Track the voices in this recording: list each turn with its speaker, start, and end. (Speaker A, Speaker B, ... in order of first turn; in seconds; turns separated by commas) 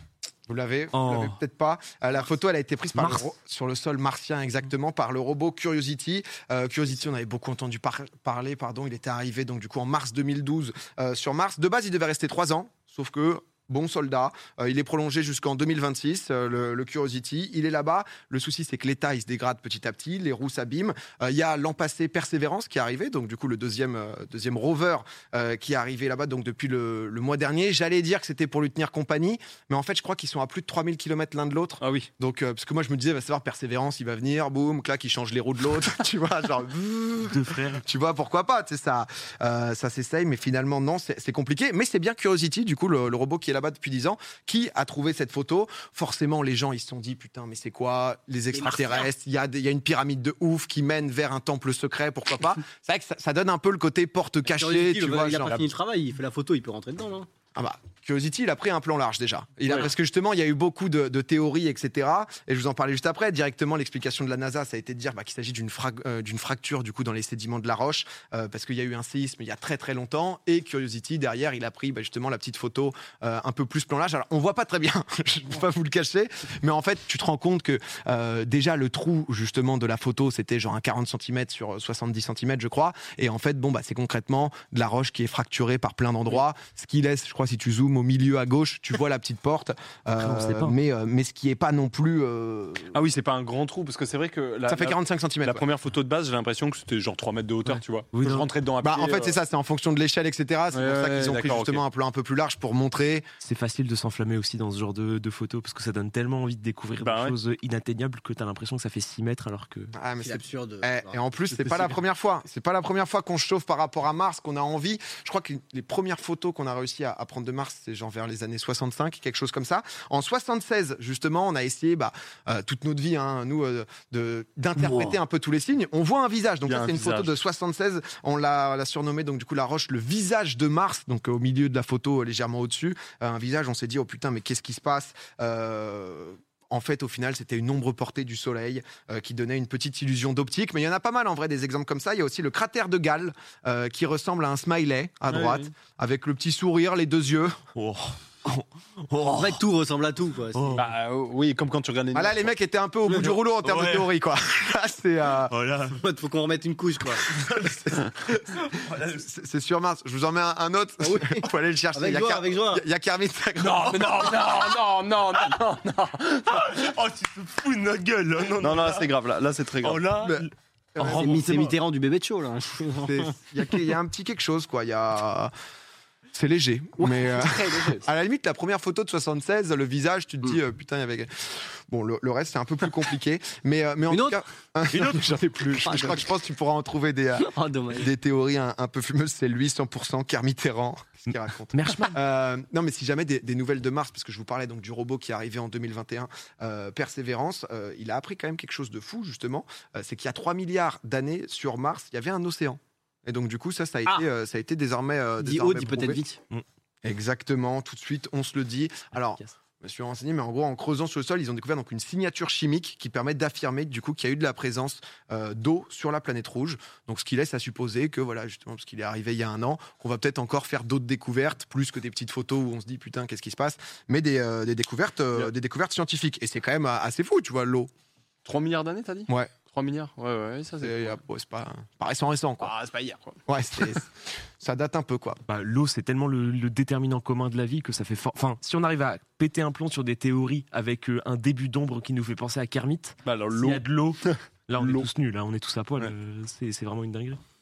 Speaker A: 0.5-55.6, Speaker B: 0.9-1.4, Speaker B: 3.0-3.3, Speaker C: 31.8-32.1, Speaker B: 37.3-37.8, Speaker D: 48.5-49.1, Speaker D: 54.5-57.3, Speaker A: 57.6-93.0, Speaker B: 90.2-90.8, Speaker C: 92.9-99.4, Speaker A: 94.7-95.7, Speaker B: 98.1-98.5, Speaker A: 98.8-103.3, Speaker C: 100.7-101.8, Speaker B: 103.4-109.9, Speaker C: 107.0-107.4, Speaker A: 110.0-147.6, Speaker D: 110.2-112.0, Speaker C: 124.8-125.2, Speaker C: 126.7-127.4, Speaker C: 145.3-145.7, Speaker B: 147.8-149.6, Speaker D: 149.3-150.9, Speaker B: 150.6-150.8, Speaker C: 150.8-152.5, Speaker A: 152.1-155.5, Speaker B: 153.6-154.1, Speaker B: 155.5-156.0, Speaker D: 155.9-157.3, Speaker B: 157.3-157.9, Speaker A: 157.6-164.4, Speaker D: 161.0-162.8, Speaker C: 163.6-166.7, Speaker B: 166.5-169.1, Speaker C: 168.6-170.1, Speaker B: 169.8-170.5, Speaker A: 170.2-171.8, Speaker D: 171.0-173.3, Speaker B: 171.0-171.8, Speaker A: 172.9-175.5, Speaker A: 176.3-206.2, Speaker D: 177.0-178.1, Speaker D: 184.1-184.4, Speaker B: 184.9-185.4, Speaker D: 185.9-186.2, Speaker D: 187.4-188.1, Speaker B: 191.7-192.2, Speaker D: 205.4-206.4, Speaker A: 207.0-227.9, Speaker C: 228.4-231.2, Speaker A: 230.8-232.7, Speaker C: 232.6-233.4, Speaker A: 233.5-235.4, Speaker B: 235.5-247.4, Speaker C: 243.2-245.1